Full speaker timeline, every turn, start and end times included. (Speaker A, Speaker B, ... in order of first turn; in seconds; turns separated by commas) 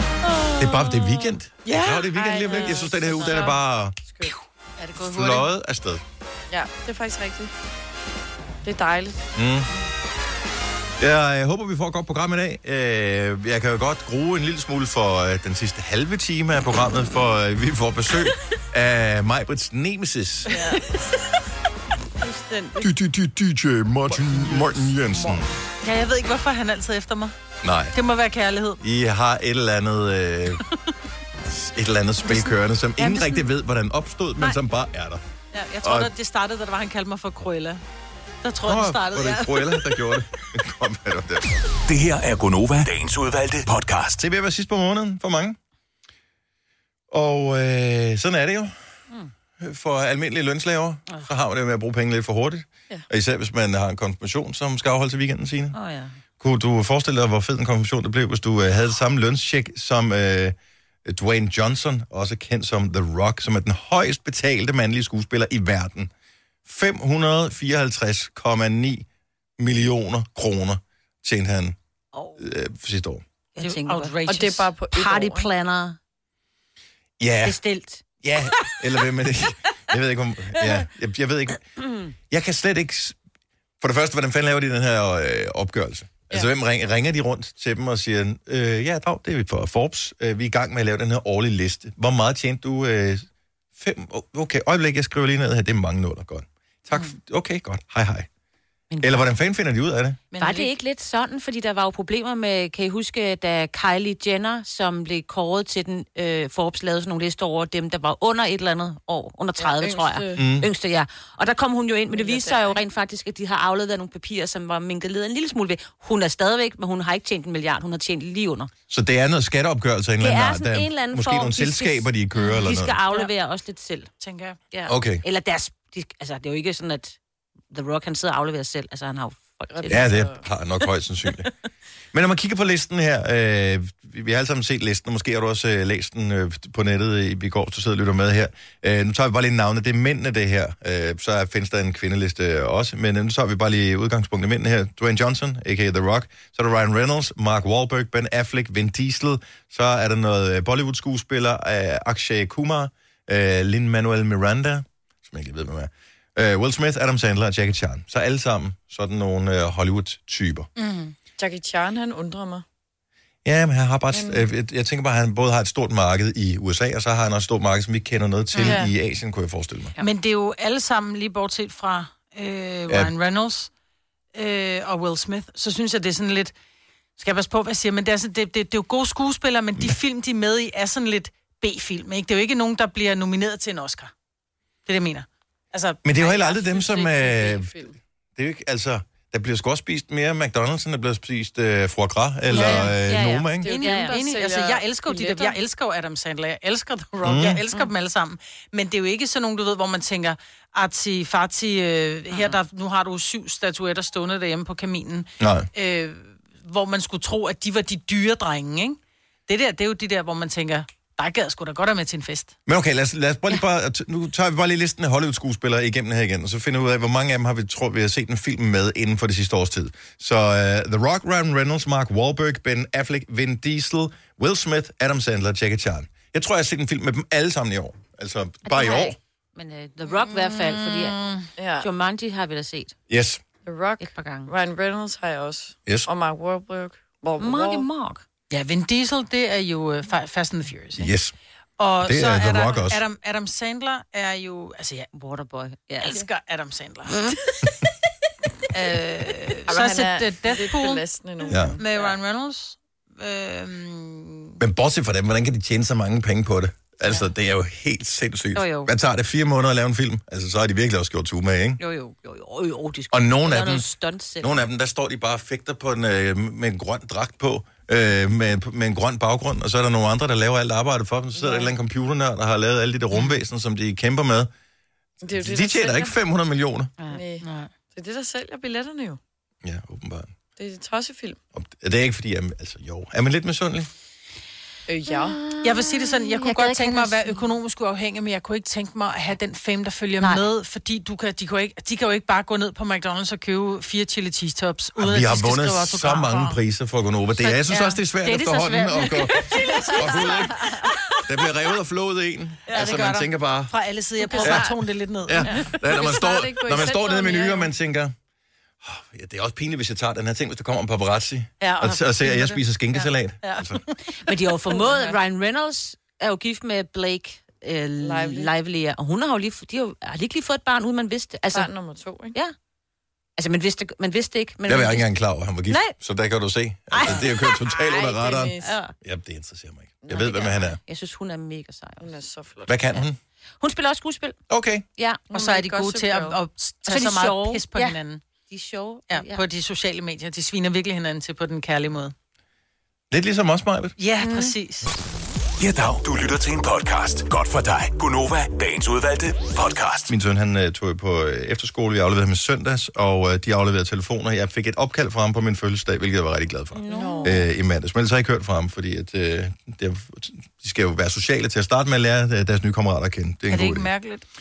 Speaker A: 0.3-1.3, Speaker B: 0.6-4.2, Speaker C: 1.8-3.3, Speaker A: 2.2-3.3, Speaker D: 2.5-3.5, Speaker C: 4.8-5.5, Speaker B: 5.0-6.0, Speaker D: 6.5-7.5, Speaker D: 8.6-9.2, Speaker B: 9.3-9.7, Speaker B: 11.0-20.6, Speaker D: 22.2-22.8, Speaker B: 22.8-25.5, Speaker C: 24.4-24.6, Speaker C: 25.8-27.3, Speaker B: 27.6-27.9, Speaker C: 27.9-28.8, Speaker B: 28.8-30.6, Speaker B: 31.4-35.2, Speaker C: 32.3-33.4, Speaker C: 35.5-37.8, Speaker B: 35.8-36.1, Speaker C: 38.4-40.0, Speaker B: 38.6-41.6, Speaker E: 41.9-44.2, Speaker B: 44.2-45.6, Speaker B: 47.1-48.8, Speaker B: 49.6-55.8, Speaker A: 55.7-56.1, Speaker B: 56.4-66.1, Speaker B: 66.6-69.0, Speaker B: 69.6-71.8, Speaker B: 72.4-73.2, Speaker A: 73.5-76.0, Speaker C: 73.6-74.6, Speaker D: 74.3-75.5, Speaker B: 77.2-77.6, Speaker A: 77.4-78.0, Speaker B: 78.2-81.6, Speaker B: 82.3-83.2, Speaker B: 83.8-98.3, Speaker A: 98.9-99.3, Speaker B: 99.0-100.2, Speaker C: 100.4-100.7, Speaker A: 100.4-118.7, Speaker D: 109.6-110.5, Speaker B: 110.3-110.7, Speaker D: 112.1-112.8, Speaker B: 118.9-123.0, Speaker A: 120.2-124.1, Speaker C: 124.2-124.6, Speaker A: 124.7-127.2, Speaker B: 124.9-125.2, Speaker A: 127.7-130.2, Speaker D: 129.7-130.4, Speaker B: 129.9-131.5, Speaker B: 132.1-160.7, Speaker C: 160.8-161.1, Speaker D: 161.4-162.6, Speaker B: 163.4-169.9, Speaker D: 164.1-164.4, Speaker D: 168.6-168.9, Speaker C: 170.0-173.7, Speaker C: 174.3-176.5, Speaker C: 177.2-184.1, Speaker C: 184.8-187.0, Speaker B: 186.0-187.7, Speaker D: 186.8-188.0, Speaker B: 188.3-193.7, Speaker C: 192.5-192.9, Speaker A: 192.5-194.2, Speaker D: 193.6-195.6, Speaker C: 193.7-212.5, Speaker B: 197.2-197.6, Speaker B: 205.4-205.7, Speaker B: 212.7-229.2, Speaker A: 228.6-231.2, Speaker C: 230.4-231.5, Speaker D: 231.6-231.9, Speaker A: 231.8-232.9, Speaker B: 233.1-233.4, Speaker D: 233.7-237.9, Speaker A: 234.0-234.5, Speaker A: 237.4-238.2, Speaker C: 238.5-241.1, Speaker B: 240.9-241.3, Speaker C: 241.8-245.1, Speaker B: 242.0-243.0, Speaker A: 245.1-246.2, Speaker C: 246.0-247.3, Speaker C: 248.7-251.0, Speaker D: 249.7-252.1, Speaker B: 251.5-251.8, Speaker C: 251.8-254.6, Speaker B: 254.6-261.8, Speaker A: 258.5-258.9, Speaker A: 261.8-264.7, Speaker B: 263.1-263.8, Speaker B: 264.4-274.5, Speaker D: 271.4-271.7, Speaker D: 275.2-276.1, Speaker B: 275.2-276.9, Speaker A: 277.0-277.7, Speaker D: 277.1-279.2, Speaker B: 279.6-280.3, Speaker D: 280.6-281.4, Speaker B: 281.5-283.9, Speaker D: 284.9-285.4, Speaker A: 285.4-287.4, Speaker C: 285.6-296.6, Speaker B: 295.0-300.6, Speaker A: 297.4-300.9, Speaker D: 299.7-300.1, Speaker B: 301.2-303.7, Speaker C: 302.7-305.5, Speaker D: 304.3-304.7, Speaker B: 304.4-308.1, Speaker D: 305.9-307.7, Speaker B: 308.8-313.8, Speaker C: 311.6-313.9, Speaker A: 314.3-321.7, Speaker D: 314.7-315.2, Speaker D: 318.0-318.5, Speaker D: 321.5-322.3, Speaker A: 323.4-325.1, Speaker B: 324.7-330.8, Speaker A: 325.7-325.9, Speaker A: 326.9-328.0, Speaker D: 327.8-328.7, Speaker A: 328.6-328.9, Speaker D: 330.1-330.3, Speaker A: 330.1-332.1, Speaker D: 332.0-332.7, Speaker B: 332.6-333.2, Speaker A: 333.6-334.4, Speaker B: 334.5-334.8, Speaker A: 335.0-335.2, Speaker D: 335.3-336.4, Speaker C: 335.3-338.2, Speaker A: 336.9-338.0, Speaker A: 338.5-339.4, Speaker C: 339.1-342.1, Speaker B: 343.1-343.9, Speaker C: 344.0-344.9, Speaker A: 344.2-344.5, Speaker E: 345.6-350.1, Speaker B: 350.1-363.9, Speaker A: 356.7-357.4, Speaker D: 356.9-357.4, Speaker C: 363.5-364.2